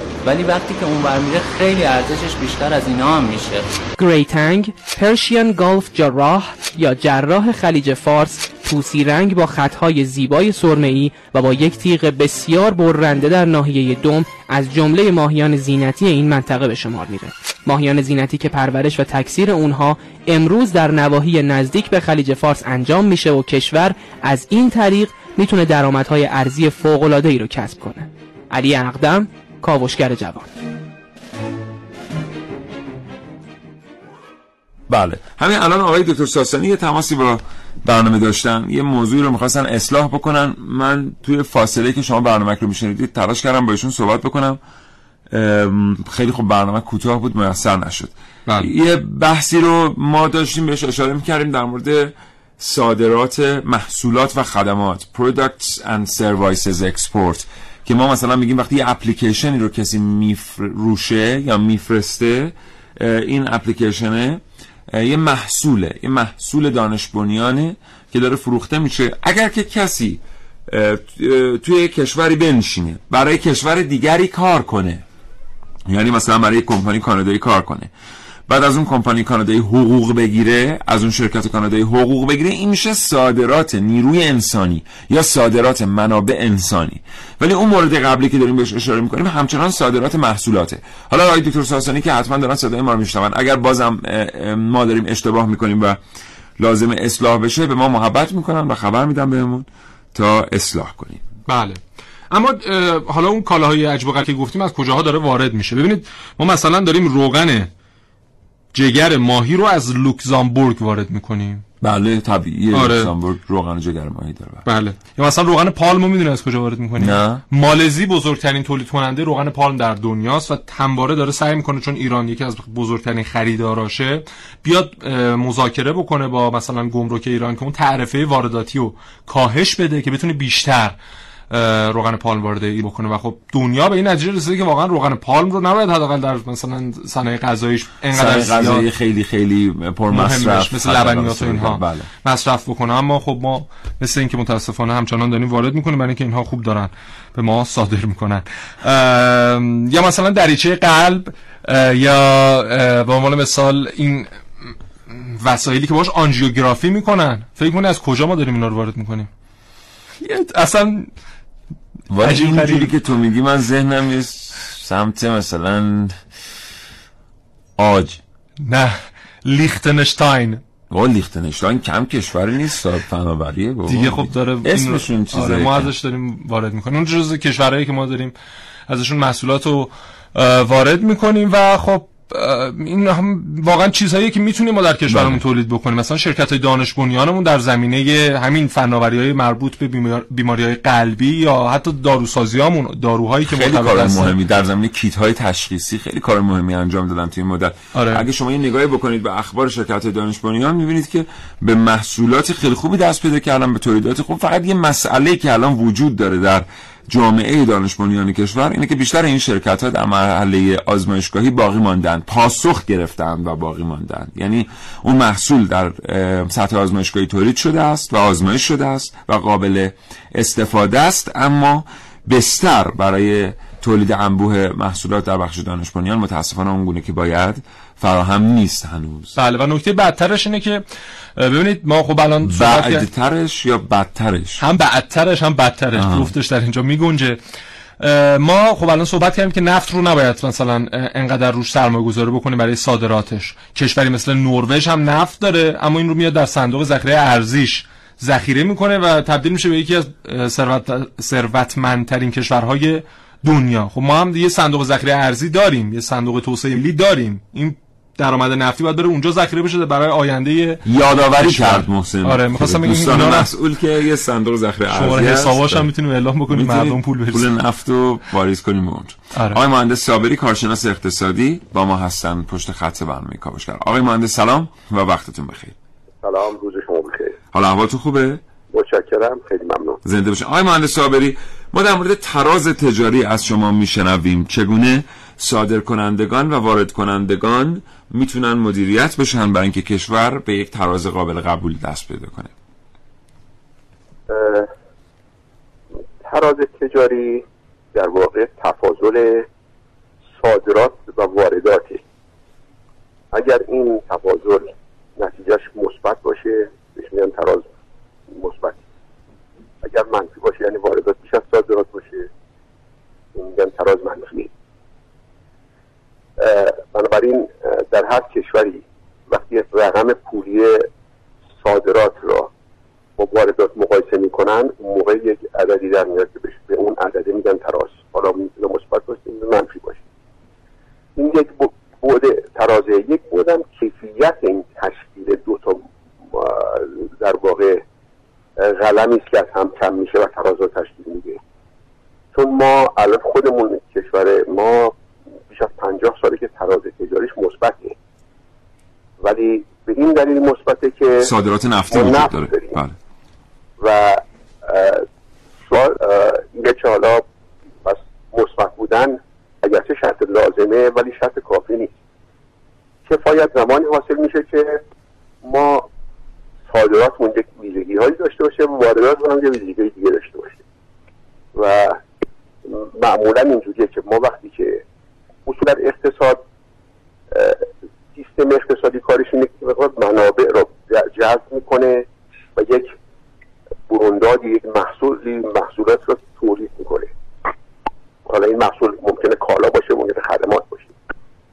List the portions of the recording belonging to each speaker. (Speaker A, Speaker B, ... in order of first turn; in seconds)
Speaker A: 0.2-3.7
Speaker B: 4.0-30.5
Speaker C: 34.9-44.6, 45.3-64.4, 64.9-75.0, 75.9-77.9, 78.5-96.0, 96.6-101.2, 111.8-114.6, 117.0-117.4, 138.1-142.1, 162.1-166.2, 167.8-168.2, 170.9-175.9, 185.1-185.4, 193.4-229.3, 232.4-234.6, 235.9-236.3, 260.8-265.9, 266.5-275.7, 277.5-278.4, 280.0-292.5, 351.2-352.9
Speaker D: 101.5-101.8, 102.3-107.7, 108.7-111.6, 112.7-113.1, 114.6-130.9, 131.5-138.9, 140.1-159.3, 160.2-161.1, 162.2-162.9, 168.6-170.6, 173.9-178.3, 178.9-194.3, 197.9-198.2, 229.3-230.8, 231.4-233.0, 234.6-237.4, 238.0-260.9, 261.4-263.5, 264.9-267.5, 269.3-269.6
Speaker E: 276.2-277.4, 278.7-280.0, 294.3-294.7, 296.2-299.4, 300.4-302.0, 303.3-307.7, 308.3-308.8, 309.8-312.3, 313.3-314.5, 316.4-320.8, 321.6-322.5, 323.2-330.0, 331.1-337.8, 338.6-341.4, 342.3-345.0, 345.5-347.9, 349.2-351.3, 351.9-352.8, 353.8-355.0, 355.6-357.2, 357.8-361.9, 363.1-364.8, 365.4-365.9, 366.7-370.6, 371.5-372.0, 372.7-374.8, 375.5-376.4, 377.3-382.9, 383.9-387.1, 388.3-390.9